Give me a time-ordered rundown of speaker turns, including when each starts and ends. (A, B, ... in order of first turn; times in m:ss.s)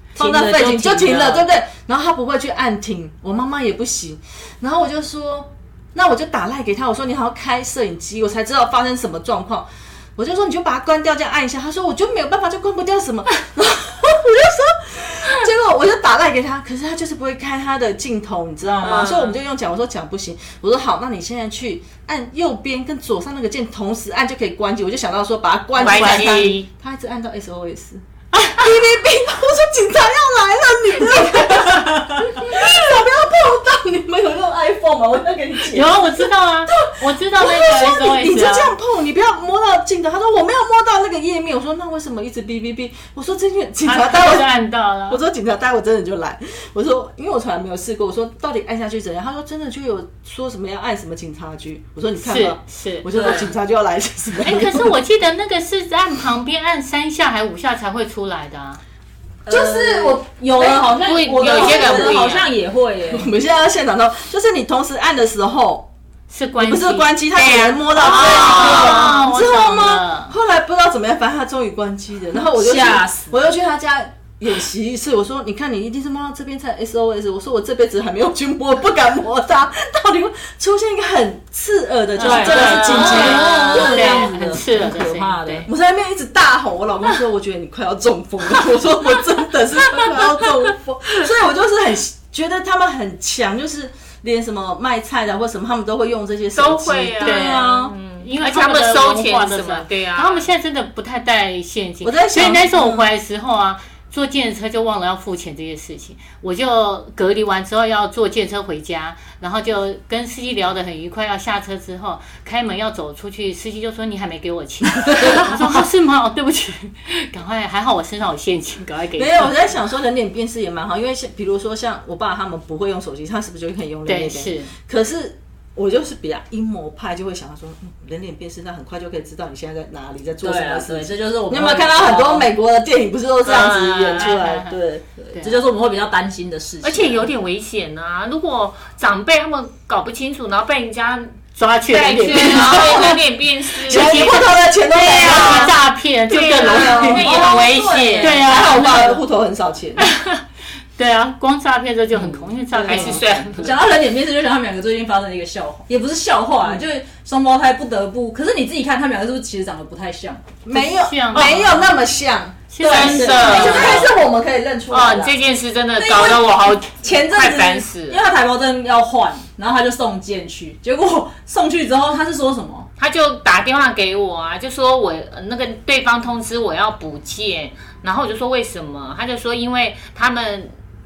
0:00.2-0:01.5 A
0:00.2-0:28.0 B
0:18.8-0:19.4 C
0:25.8-0:26.6 C
0:25.8-0:26.7 D
0:28.3-0:28.7 D
0:28.5-0:44.5 B
0:35.7-0:38.7 D
0:43.8-0:45.2 D
0:45.1-0:54.9 B
0:52.2-0:53.5 D
0:54.4-0:58.8 D
0:59.4-1:02.2 B
0:59.5-1:03.3 A
1:00.7-1:02.5 C
1:03.1-1:05.9 B
1:06.3-1:07.2 D
1:06.6-1:24.3 B
1:07.3-1:09.2 C
1:08.0-1:10.4 D
1:12.5-1:13.3 A
1:22.2-1:25.7 D
1:22.2-1:25.7 A
1:22.4-1:24.0 C
1:25.6-1:37.9 B
1:36.5-1:40.5 C
1:37.2-1:59.5 D
1:42.0-1:43.1 B
1:59.2-2:15.0 B
2:04.0-2:04.7 D
2:10.4-2:12.5 A
2:13.4-2:14.4 C
2:14.1-2:14.8 D
2:15.2-2:17.3 A
2:16.8-2:28.5 C
2:21.6-2:23.1 D
2:22.3-2:25.8 B
2:24.9-2:27.3 D
2:26.5-2:30.1 B
2:27.1-2:28.4 A
2:28.2-2:29.2 D
2:31.0-2:33.7 D
2:32.2-2:33.8 C
2:32.8-2:40.5 A
2:40.6-2:42.7 B
2:40.7-2:41.9 D
2:42.7-2:44.0 D
2:42.8-2:44.1 A
2:42.8-2:44.1 C
2:43.3-2:45.3 B
2:44.9-2:48.2 C
2:46.0-2:52.9 A
2:53.0-3:00.7 C